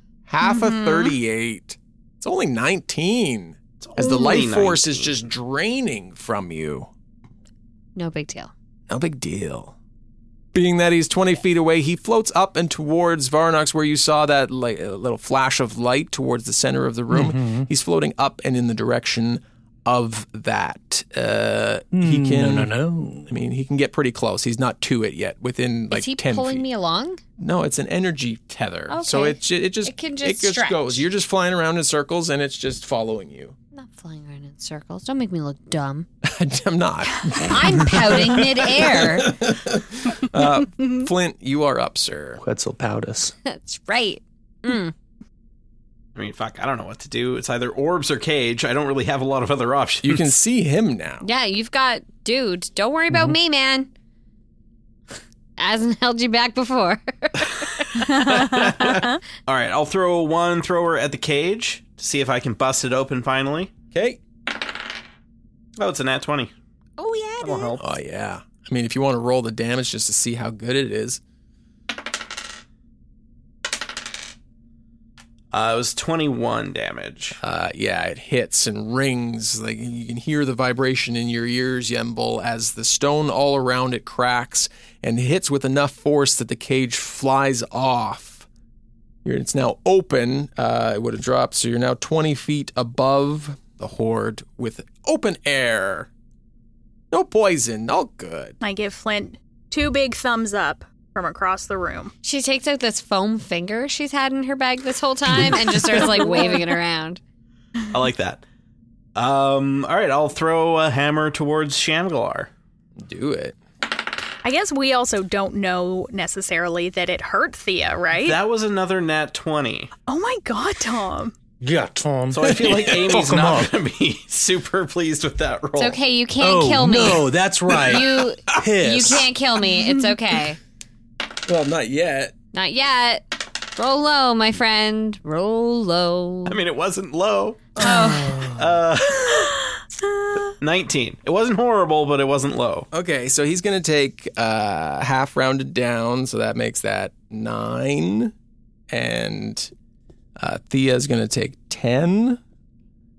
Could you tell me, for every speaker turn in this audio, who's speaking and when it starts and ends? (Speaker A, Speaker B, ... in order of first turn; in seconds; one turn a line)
Speaker A: 0.3-6.9
Speaker B: 0.4-1.1
Speaker C: 3.8-5.1
Speaker B: 4.0-4.4
Speaker D: 8.0-8.5
Speaker A: 8.9-9.8
Speaker A: 10.5-22.7
Speaker E: 17.1-17.7
Speaker E: 21.9-23.3
Speaker A: 23.3-26.6
Speaker D: 25.9-27.2
Speaker A: 27.4-33.5
Speaker D: 28.9-31.0
Speaker D: 33.7-36.1
Speaker A: 36.2-42.4
Speaker D: 37.5-39.3
Speaker E: 42.4-43.3
Speaker D: 43.5-44.9
Speaker C: 46.1-50.2
Speaker A: 50.0-51.2
Speaker D: 51.2-53.9
Speaker E: 53.1-53.4
Speaker D: 55.6-57.9
Speaker B: 58.0-59.2
Speaker C: 58.5-63.7
Speaker A: 63.9-64.2
Speaker C: 65.8-66.5
Speaker D: 67.0-67.8
Speaker C: 67.4-67.8
Speaker A: 67.8-71.2
Speaker C: 75.5-77.4
Speaker A: 77.4-88.5
Speaker A: 89.2-96.1
Speaker A: 97.1-98.6
Speaker B: 98.6-102.1
Speaker D: 102.2-107.2
Speaker C: 107.9-108.4
Speaker C: 109.1-112.5
Speaker A: 113.0-113.6
Speaker B: 114.4-118.4
Speaker C: 118.2-119.9
Speaker B: 120.1-121.3
Speaker E: 121.6-123.7
Speaker C: 122.3-126.0
Speaker D: 125.8-130.6
Speaker E: 126.4-129.2
Speaker A: 131.4-132.3
Speaker D: 132.5-136.6
Speaker C: 136.5-137.8
Speaker D: 137.8-138.5
Speaker A: 137.8-138.1
Speaker E: 138.2-138.5
Speaker C: 138.5-139.5
Speaker C: 140.6-142.9
Speaker A: 142.9-148.3
Speaker A: 148.9-149.7
Speaker A: 150.4-152.4